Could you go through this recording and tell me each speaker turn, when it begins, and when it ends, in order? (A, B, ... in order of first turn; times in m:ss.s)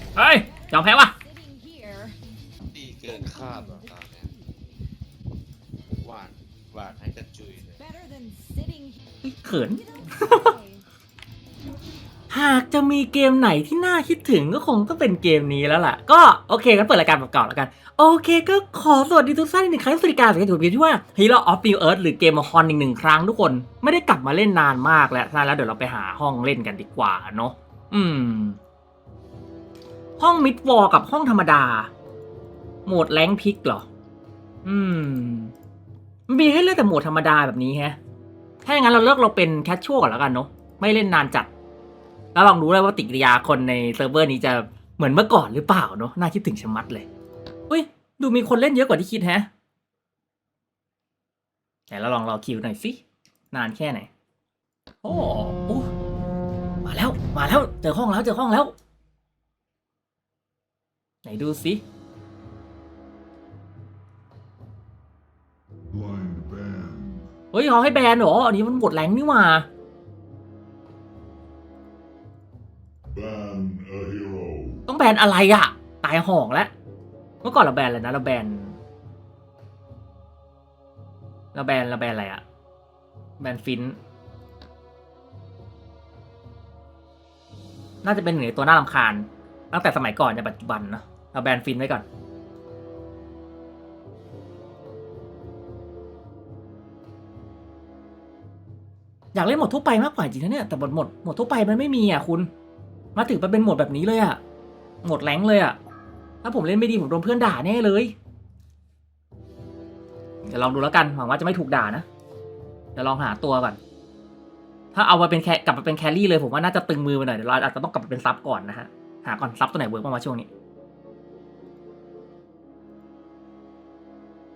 0:00.1-0:01.2 A
0:00.5-0:02.2 B
0:02.7-0:04.3 C
0:03.1-0:04.5 B
0:06.0-0:07.8 C
0:07.8-0:09.0 B
0:09.2-0:10.5 A
0:09.8-0:10.8 B
0:12.3-0:28.6 A
0:30.2-0:31.9 A
0:32.8-0:33.8 A
0:34.6-0:35.5 A
0:36.3-0:38.0 A
0:38.6-0:41.5 A
0:42.3-0:47.1 A
0:47.7-0:49.5 A
0:51.9-0:53.0 A
0:53.5-0:54.1 A
0:55.0-0:55.9 A
0:56.8-0:58.7 A
1:01.2-1:01.8 A
1:05.9-1:07.2 D
1:07.5-1:09.7 A
1:13.1-1:14.8 D
1:14.9-1:16.7 A
1:17.4-1:18.8 A
1:21.5-1:22.4 A
1:23.4-1:24.0 A
1:28.0-1:32.0 A
1:39.3-1:42.5 A
1:43.1-1:44.4 A
1:45.0-1:45.8 A
1:46.4-1:48.1 A
1:50.4-1:52.0 A
1:52.9-1:53.8 A
1:54.9-2:00.5 A